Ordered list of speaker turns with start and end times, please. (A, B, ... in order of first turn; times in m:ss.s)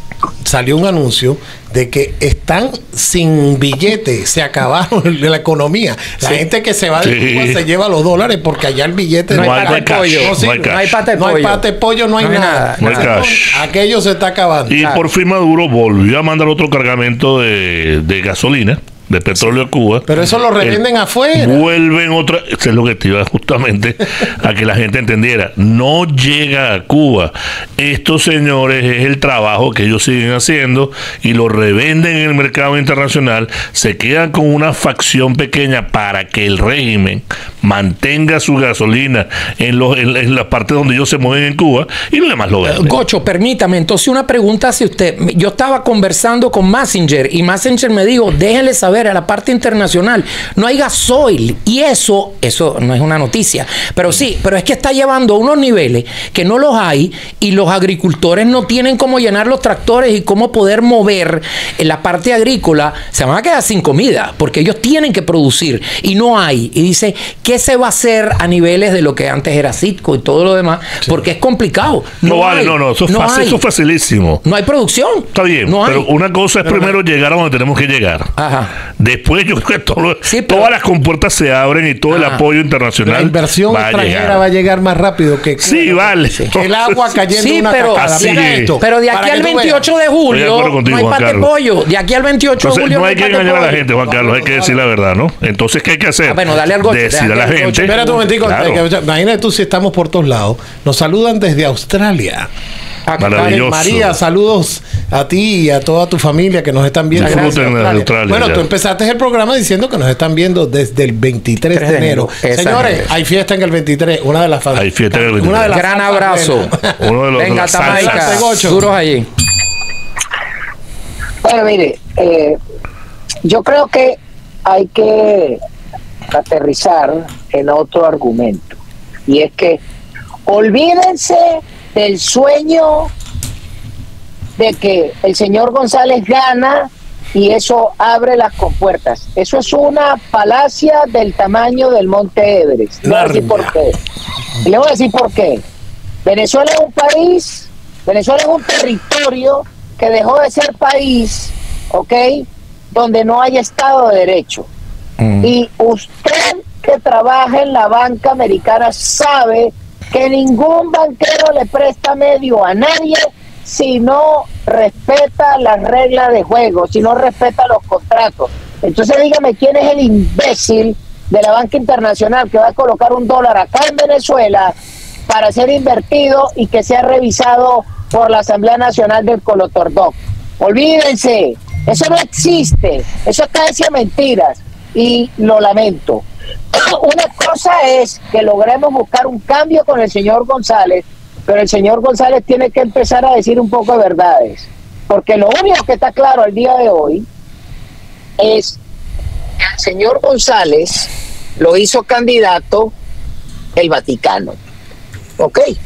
0:00.4-0:14.8 A
0:07.0-0:07.6 B
0:09.3-0:11.6 C
0:09.3-0:11.0 B
0:12.2-0:13.2 C
0:12.8-0:13.6 B
0:14.7-0:20.8 B
0:20.1-0:21.6 A
0:21.3-0:43.0 B
0:42.6-1:13.6 C
1:12.2-1:14.4 B
1:14.4-1:16.1 C
1:15.4-1:18.3 B
1:16.6-1:16.9 A
1:18.4-1:18.7 C
1:19.0-1:24.4 B
1:20.3-1:20.7 C
1:22.1-1:22.4 C
1:23.0-1:29.9 A
1:25.6-1:26.9 B
1:27.3-1:33.8 C
1:28.0-1:28.8 B
1:30.3-1:31.5 B
1:32.6-1:38.8 B
1:33.9-1:34.8 A
1:36.3-1:38.2 C
1:37.9-1:42.5 A
1:43.1-1:43.6 C
1:43.2-1:44.1 B
1:43.4-1:57.1 A
1:47.1-1:48.6 B
1:47.2-1:48.1 C
1:51.7-1:53.1 C
1:54.8-1:55.8 B
1:55.7-1:56.7 C
1:57.0-1:58.7 B
1:57.4-1:59.3 C
1:57.8-1:58.9 A
2:01.4-2:02.6 D
2:03.4-2:05.6 D
2:06.3-2:09.8 D
2:10.4-2:13.1 D
2:14.6-2:23.9 D
2:23.0-2:23.8 A
2:24.6-2:25.6 D
2:26.2-2:34.7 D
2:35.2-2:35.5 C
2:35.4-2:54.8 D
2:55.3-3:17.3 D
3:18.4-3:18.8 D
3:19.6-3:22.9 D
3:23.8-3:24.6 D
3:25.4-3:25.6 D